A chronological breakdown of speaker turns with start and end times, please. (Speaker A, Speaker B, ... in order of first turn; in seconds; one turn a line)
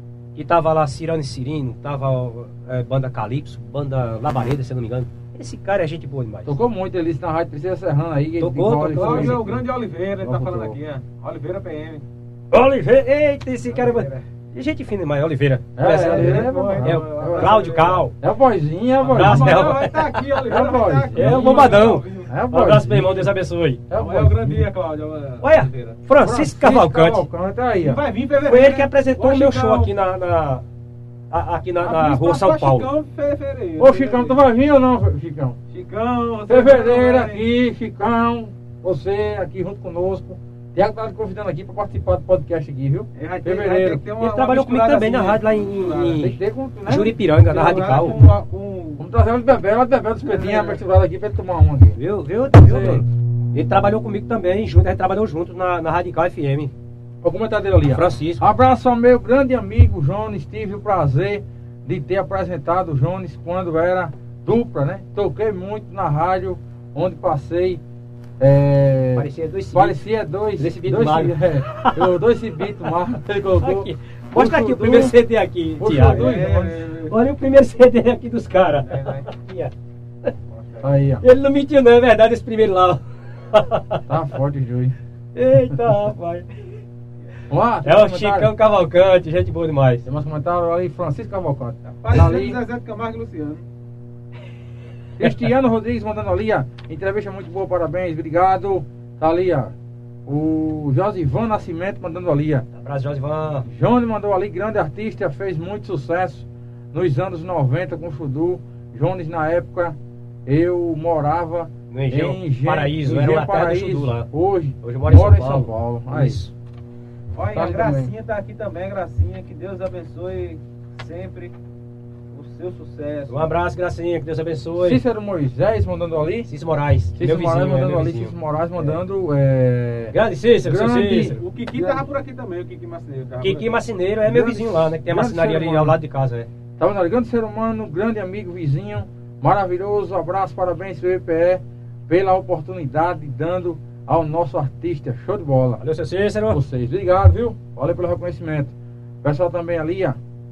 Speaker A: 0.3-6.5
Speaker B: 6.5-9.6
Speaker A: 8.4-9.4
Speaker C: 8.9-12.0
Speaker B: 10.2-10.8
Speaker A: 12.5-18.1
Speaker C: 13.7-14.2
Speaker B: 15.8-17.7
Speaker C: 15.8-18.1
Speaker B: 18.2-19.8
Speaker C: 19.0-22.3
Speaker A: 19.1-20.6
Speaker B: 20.4-23.3
Speaker A: 21.1-23.8
Speaker B: 23.9-24.7
Speaker C: 23.9-26.0
Speaker A: 25.4-27.3
Speaker B: 26.2-28.0
Speaker C: 27.8-29.9
Speaker A: 28.4-30.6
Speaker A: 31.3-32.9
Speaker C: 31.8-34.4
Speaker B: 33.8-35.6
Speaker C: 35.7-37.4
Speaker B: 36.5-44.0
Speaker C: 43.1-46.2
Speaker A: 44.2-48.2
Speaker B: 46.2-48.2
Speaker C: 47.5-49.0
Speaker B: 49.0-52.0
Speaker C: 50.2-50.8
Speaker A: 52.0-56.7
Speaker B: 52.6-53.0
Speaker B: 57.2-67.8
Speaker A: 57.8-58.4
Speaker B: 68.4-75.2
Speaker A: 69.2-70.0
Speaker A: 70.6-72.1
Speaker A: 73.6-76.4
Speaker B: 75.8-76.8
Speaker C: 75.9-77.1
Speaker A: 77.1-79.7
Speaker C: 78.8-79.3
Speaker C: 80.5-81.0
Speaker B: 80.8-81.2
Speaker A: 81.2-84.0
Speaker B: 84.1-84.9
Speaker A: 85.3-86.8
Speaker B: 87.5-88.5
Speaker A: 87.8-90.0
Speaker B: 90.0-92.6
Speaker C: 92.0-93.6
Speaker B: 95.2-99.7
Speaker B: 100.3-102.7
Speaker A: 102.7-103.7
Speaker B: 103.7-116.4
Speaker A: 111.9-114.3
Speaker A: 114.8-116.5
Speaker C: 117.3-121.5
Speaker B: 117.5-118.1
Speaker C: 122.3-123.5
Speaker A: 123.3-125.0
Speaker B: 124.8-126.5
Speaker A: 126.5-128.9
Speaker B: 127.2-132.0
Speaker A: 130.1-131.4
Speaker C: 131.3-133.8
Speaker A: 133.4-136.5
Speaker B: 134.2-136.0
Speaker B: 136.8-145.8
Speaker A: 145.8-146.6
Speaker B: 146.5-150.2